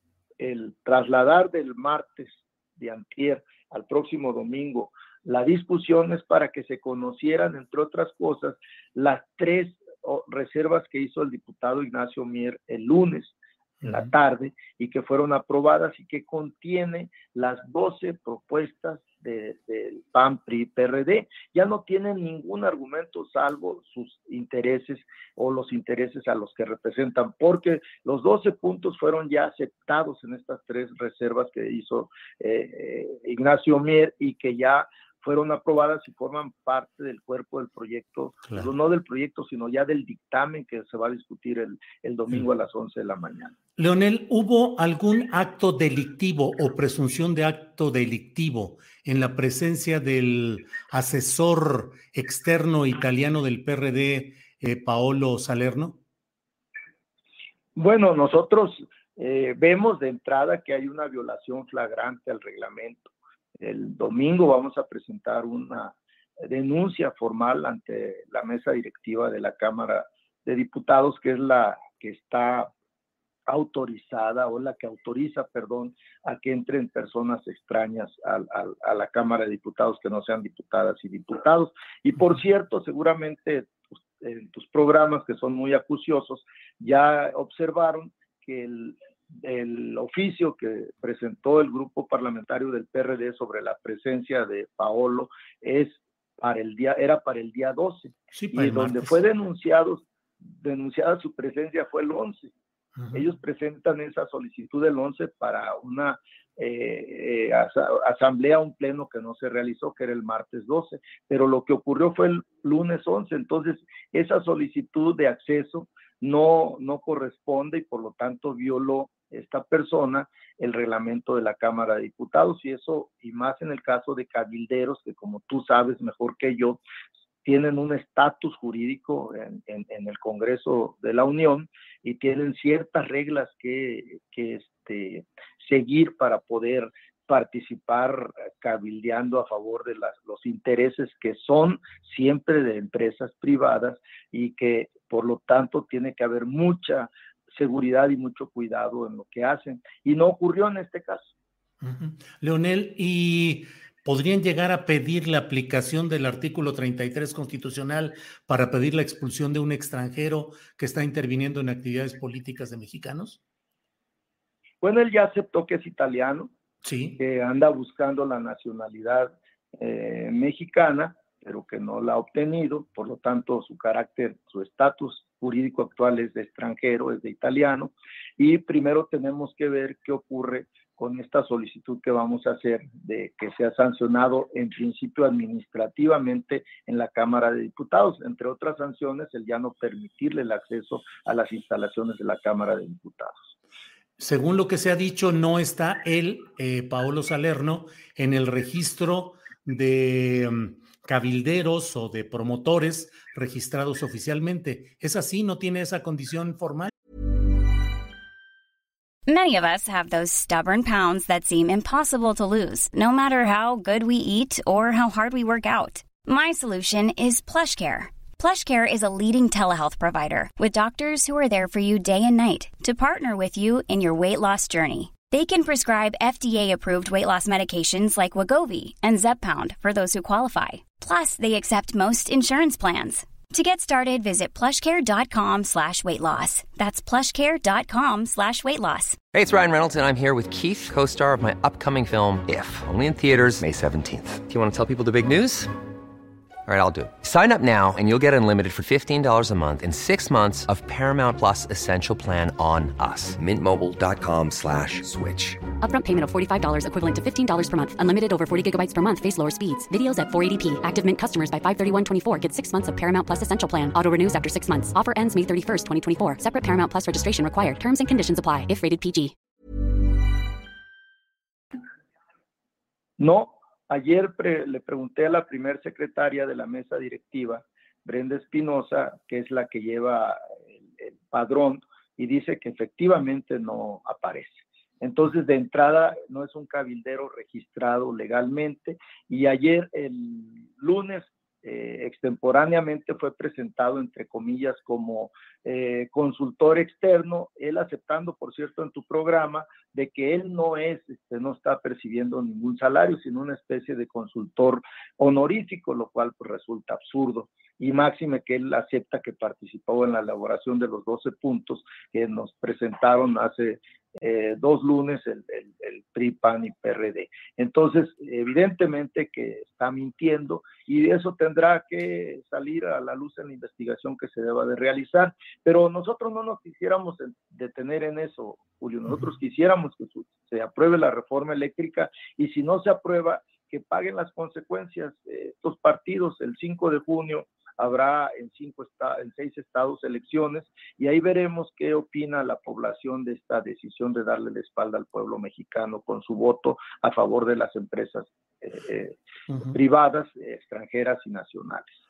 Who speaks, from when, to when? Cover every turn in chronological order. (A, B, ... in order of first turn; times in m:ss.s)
0:00.4-0:43.5 A
0:13.8-0:14.1 B
0:43.8-0:56.0 B
0:57.8-1:12.7 A
1:13.5-1:42.5 A
1:38.3-1:39.2 B
1:43.0-1:43.3 B
1:43.1-2:06.8 A
2:07.4-2:31.3 A
2:31.8-2:43.4 B
2:44.8-2:46.5 A
2:46.8-2:47.2 B
2:47.2-3:13.5 A
3:14.2-3:26.9 B
3:29.3-3:59.2 C
3:59.3-4:05.7 D
4:06.6-4:15.6 D
4:15.8-4:29.3 E
4:33.2-4:40.4 A
4:41.0-5:52.0 A